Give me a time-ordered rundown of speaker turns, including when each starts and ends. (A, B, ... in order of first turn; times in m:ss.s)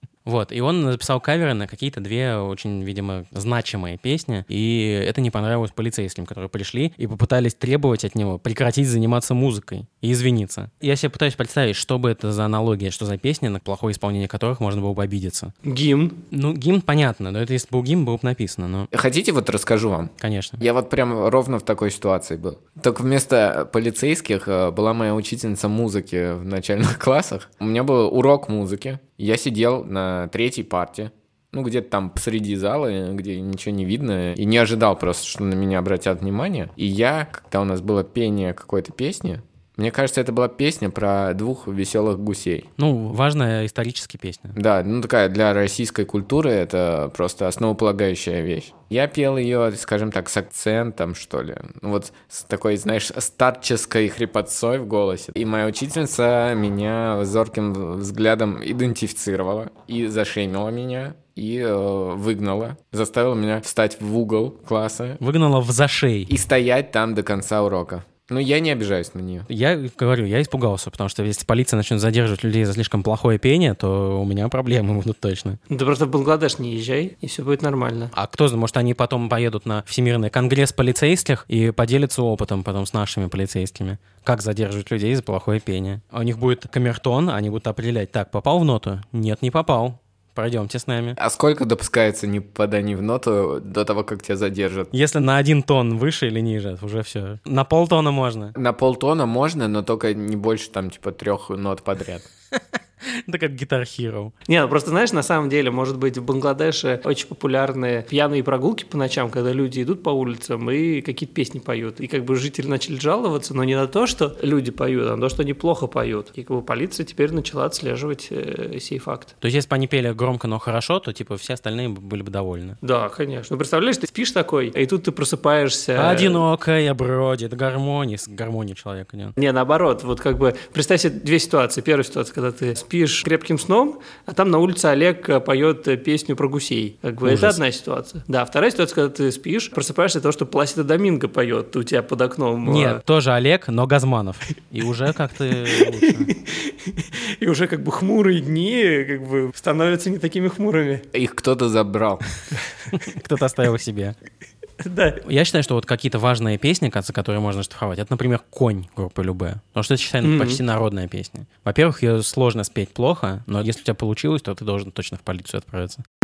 0:00.3-0:15.5 A
0:15.6-0:16.2 B
0:16.3-0:18.9 A
0:18.9-0:42.7 C
0:20.2-0:20.6 A
0:42.8-0:44.6 A
0:44.6-1:05.2 C
1:05.2-1:06.3 A
1:06.3-1:09.5 C
1:09.5-1:15.6 A
1:15.7-1:18.1 B
1:18.1-1:31.2 A
1:31.2-1:34.9 C
1:34.9-1:38.6 A
1:38.6-1:42.3 C
1:42.5-1:44.3 A
1:44.5-1:59.3 B
1:59.4-2:02.8 A
2:02.8-2:06.4 B
2:06.0-2:09.4 A
2:09.4-2:23.0 B
2:17.2-2:17.6 A
2:22.6-2:26.3 A
2:25.7-2:31.0 B
2:31.1-2:32.2 C
2:32.9-2:34.2 A
2:34.8-2:35.2 B
2:35.2-2:46.0 A
2:40.2-2:40.6 B